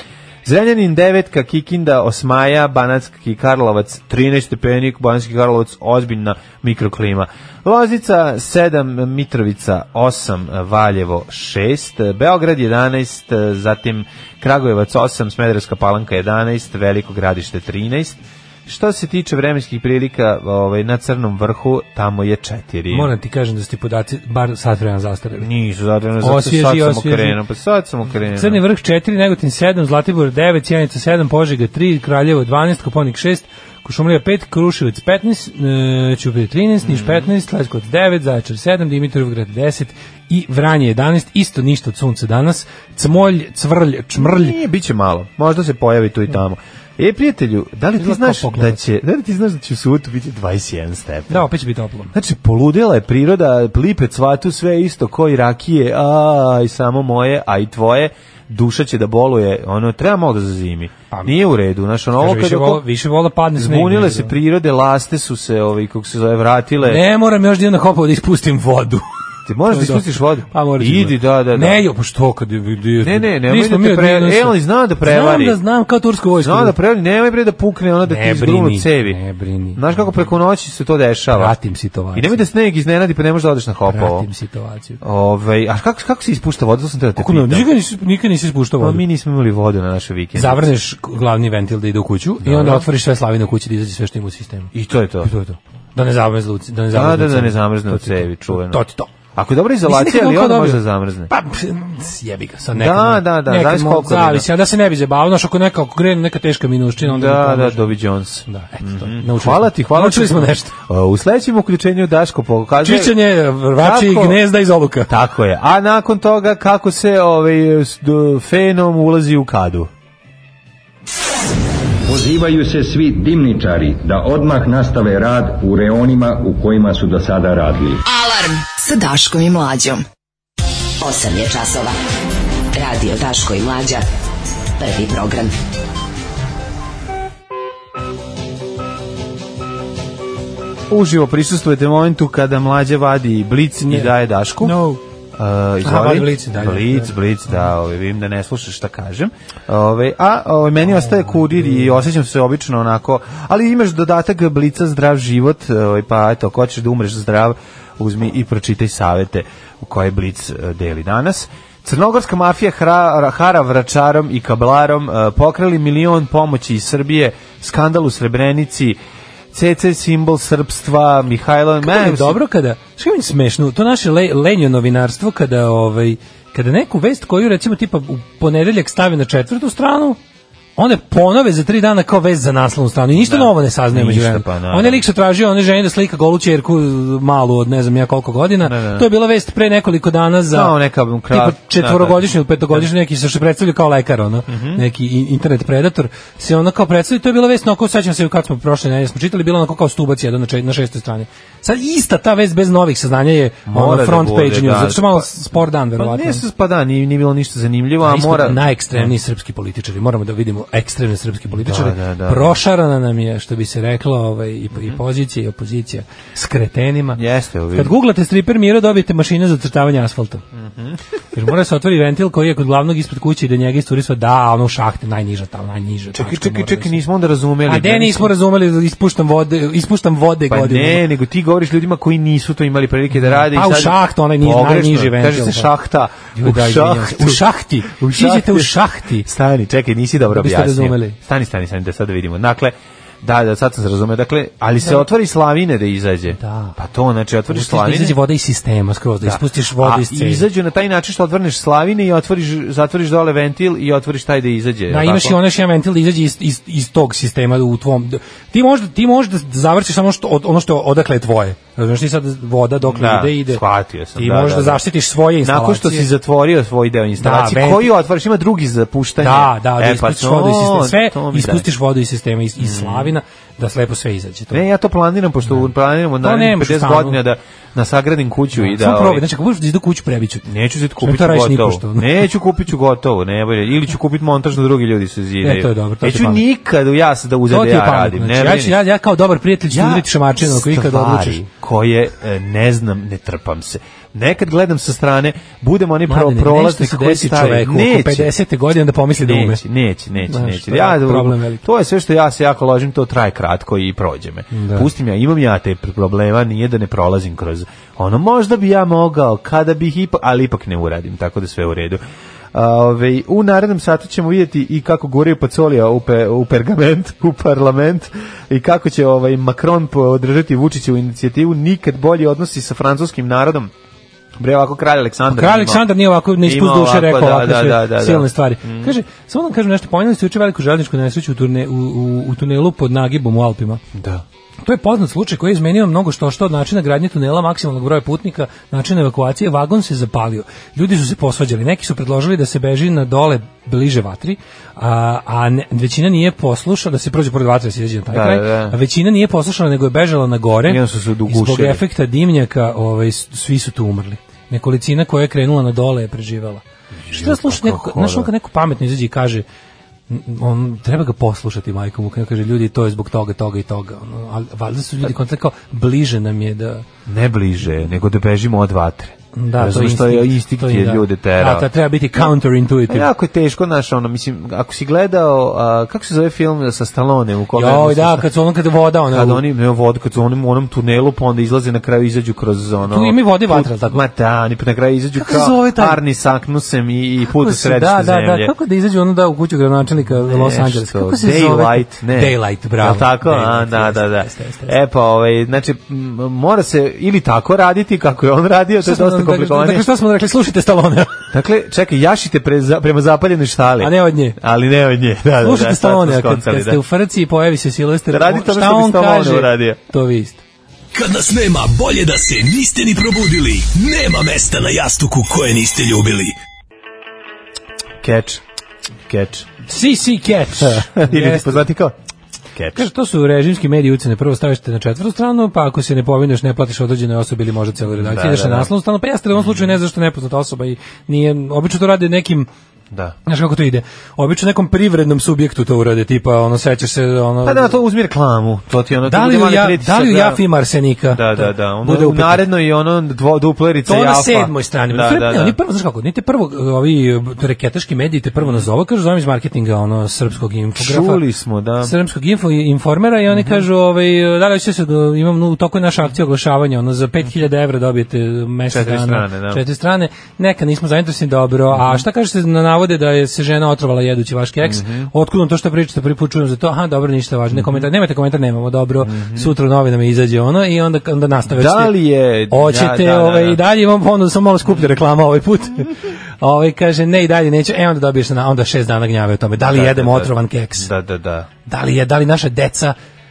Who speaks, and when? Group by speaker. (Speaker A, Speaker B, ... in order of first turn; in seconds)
Speaker A: 0.4-23.1, 25.4-28.6, 36.8-37.3, 44.2-51.5, 52.1-62.8, 63.6-67.0, 69.5-71.8, 73.0-75.6, 76.4-79.2, 79.8-81.5, 82.1-84.2, 85.0-87.7, 88.8-90.7, 92.4-92.9, 94.7-95.3, 96.9-98.8, 99.3-101.3, 102.7-104.5, 107.0-113.2, 113.7-114.4, 115.1-119.9, 140.9-144.8, 145.3-169.0, 169.5-172.4, 183.2-185.0, 188.6-189.1, 190.5-192.9, 194.5-194.8, 203.7-205.3, 205.9-209.1, 211.6-212.6, 217.2-217.9, 220.5-221.0, 226.1-228.3, 230.5-248.2, 249.2-255.4, 262.8-264.8, 265.4-271.7, 272.6-273.1, 274.5-279.2, 280.4-288.8, 289.7-298.3, 299.2-312.0, 312.5-323.7, 324.4-325.9, 326.4-328.9, 333.9-334.2, 348.1-348.8, 350.6-351.8, 357.0-358.3, 367.1-371.7, 372.9-378.3, 379.1-388.5, 390.2-399.8, 401.3-406.8, 408.1-409.8, 418.0-418.4, 419.1-419.5, 420.6-421.9, 422.5-422.9, 427.9-428.7, 429.3-429.8, 437.4-440.4, 441.1-445.6, 448.4-448.6, 450.8-451.9, 453.3-453.6, 458.7-459.6, 461.7-462.0, 464.6-465.1, 467.5-467.9, 469.0-469.5, 471.5-473.6, 479.6-481.5
Speaker B: 22.9-25.5, 26.2-27.4, 28.3-44.6, 48.0-48.8, 51.3-52.1, 62.2-64.3, 66.8-69.0, 69.7-76.8, 78.0-79.8, 81.3-82.5, 83.9-85.0, 87.2-89.0, 90.3-99.1, 99.8-107.9, 108.5-110.7, 112.8-115.1, 143.8-145.0, 145.8-147.1, 151.2-152.0, 171.8-180.2, 180.8-190.7, 191.3-206.4, 208.0-217.2, 217.7-220.4, 221.3-227.0, 227.7-231.0, 233.1-235.7, 236.3-239.3, 240.3-241.2, 246.3-246.7, 247.5-250.4, 254.9-263.6, 264.1-266.1, 267.2-267.9, 269.2-274.6, 276.2-277.2, 278.5-280.5, 281.0-282.3, 285.4-286.4, 287.5-291.4, 296.1-299.6, 300.3-301.6, 304.5-304.9, 325.3-333.8, 334.6-359.4, 360.1-366.8, 369.3-373.1, 377.5-379.4, 382.9-384.0, 385.2-386.0, 387.3-394.8, 398.8-401.2, 403.8-404.4, 405.4-410.4, 419.7-421.6, 422.7-432.5, 433.2-437.8, 439.1-442.4, 443.9-451.2, 451.8-471.9, 472.5-480.9, 481.6-482.9
Speaker C: 122.0-128.0
Speaker D: 128.1-130.0
Speaker E: 131.0-131.9, 132.7-134.0, 134.8-135.5
Speaker F: 410.9-416.3